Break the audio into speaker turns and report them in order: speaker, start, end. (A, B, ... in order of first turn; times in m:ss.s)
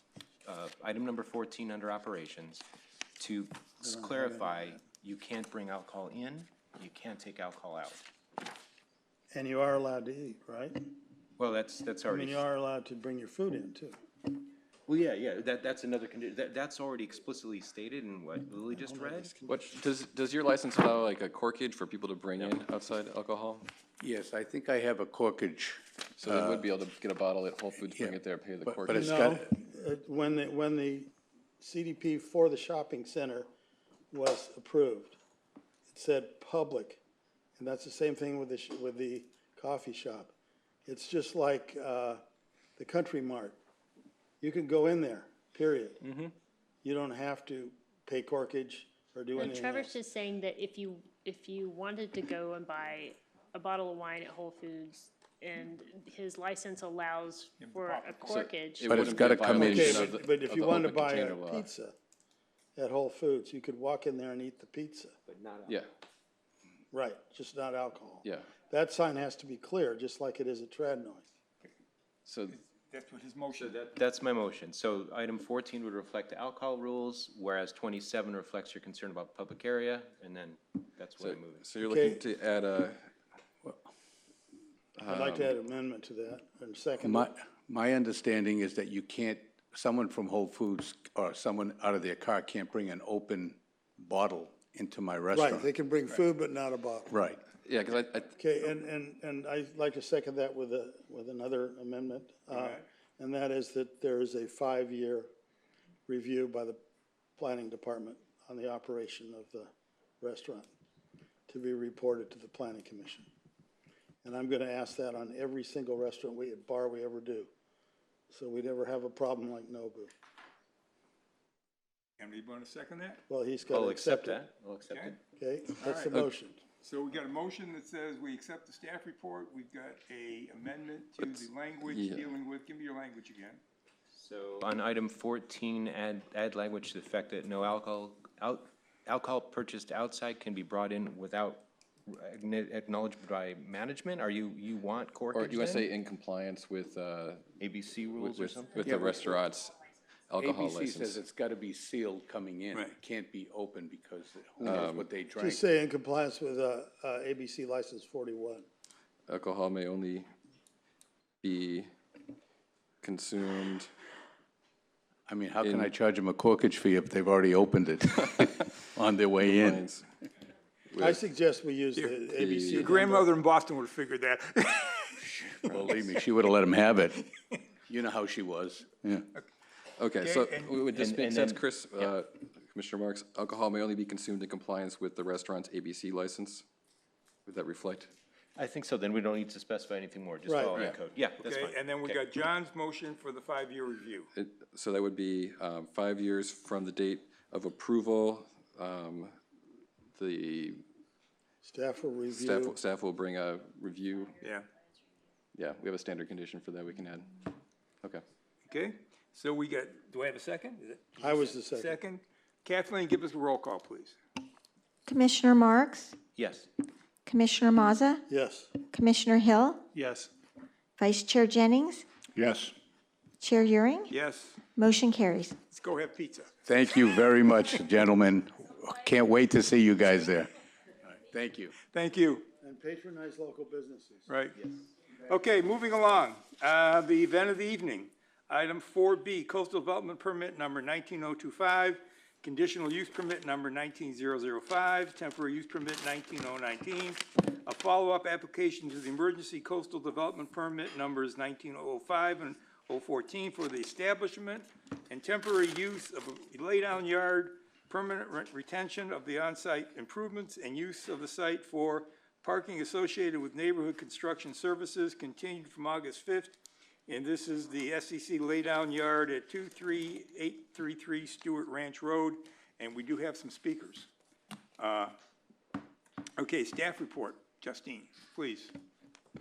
0:00.4-0:02.6 A
0:03.2-0:08.0 A
0:03.8-0:04.8 B
0:09.3-0:10.8 B
0:11.4-0:12.4 A
0:12.1-0:14.0 B
0:14.9-0:19.3 A
0:18.8-0:19.6 B
0:19.5-0:23.7 C
0:24.0-0:26.7 D
0:26.2-0:29.2 C
0:27.9-0:29.5 D
0:28.9-0:31.1 B
0:31.6-0:33.5 B
0:34.1-0:35.2 B
0:35.9-0:37.0 B
0:37.6-0:40.3 B
0:40.9-0:42.2 B
0:42.8-0:43.6 B
0:44.4-0:46.0 B
0:46.0-0:46.3 A
0:46.8-0:50.0 B
0:49.4-0:59.6 E
0:57.6-0:58.5 F
0:58.3-1:01.7 C
0:58.9-1:00.1 D
0:59.5-1:01.9 B
1:02.8-1:05.1 B
1:05.3-1:05.8 A
1:06.9-1:11.3 B
1:08.2-1:08.5 C
1:12.2-1:12.6 C
1:12.5-1:13.8 F
1:13.6-1:21.7 A
1:21.2-1:23.0 C
1:21.8-1:22.2 B
1:25.0-1:25.6 C
1:25.0-1:27.3 B
1:27.0-1:35.7 D
1:35.3-1:37.1 B
1:37.1-1:37.4 D
1:37.6-1:38.4 C
1:38.4-1:45.3 B
1:42.5-1:42.8 F
1:46.1-1:46.8 B
1:47.4-1:50.7 B
1:51.5-1:53.3 B
1:54.2-1:57.5 B
1:58.3-2:00.1 B
2:02.2-2:03.2 F
2:03.3-2:04.4 B
2:03.7-2:05.2 A
2:04.9-2:05.2 F
2:05.4-2:06.6 B
2:06.8-2:13.6 F
2:11.2-2:12.3 C
2:14.1-2:25.9 A
2:25.3-2:27.5 C
2:27.6-2:29.3 A
2:28.1-2:29.8 C
2:30.3-2:31.2 C
2:30.4-2:35.6 D
2:34.6-2:35.1 C
2:35.4-2:38.7 B
2:39.3-2:40.3 C
2:41.4-2:41.9 C
2:43.0-2:43.9 C
2:45.3-2:49.8 D
2:45.6-2:45.9 C
2:49.4-2:50.1 C
2:50.9-2:51.2 C
2:51.0-2:53.3 B
2:52.4-2:52.9 C
2:52.9-2:55.8 F
2:55.7-2:57.2 D
2:57.9-2:59.3 D
3:00.0-3:06.6 C
3:00.2-3:00.8 F
3:01.0-3:02.1 A
3:07.5-3:08.1 C
3:08.6-3:12.2 A
3:10.5-3:10.9 B
3:11.4-3:14.3 F
3:14.3-3:19.4 C
3:20.1-3:20.8 C
3:21.6-3:22.8 B
3:22.3-3:24.4 C
3:24.4-3:24.7 F
3:25.6-3:27.3 C
3:28.6-3:34.2 F
3:31.2-3:31.9 B
3:35.1-3:36.2 G
3:36.4-3:36.7 A
3:37.3-3:38.2 G
3:38.3-3:38.7 B
3:38.9-3:39.9 G
3:41.0-3:42.1 G
3:43.4-3:44.1 G
3:44.1-3:44.6 F
3:44.8-3:45.6 G
3:45.7-3:46.5 F
3:46.6-3:50.5 D
3:51.1-3:51.7 D
3:51.8-3:52.5 F
3:52.6-3:54.3 B
3:54.3-3:54.6 F
3:55.2-4:34.1 F
4:34.8-4:35.2 F
4:36.4-4:38.7 F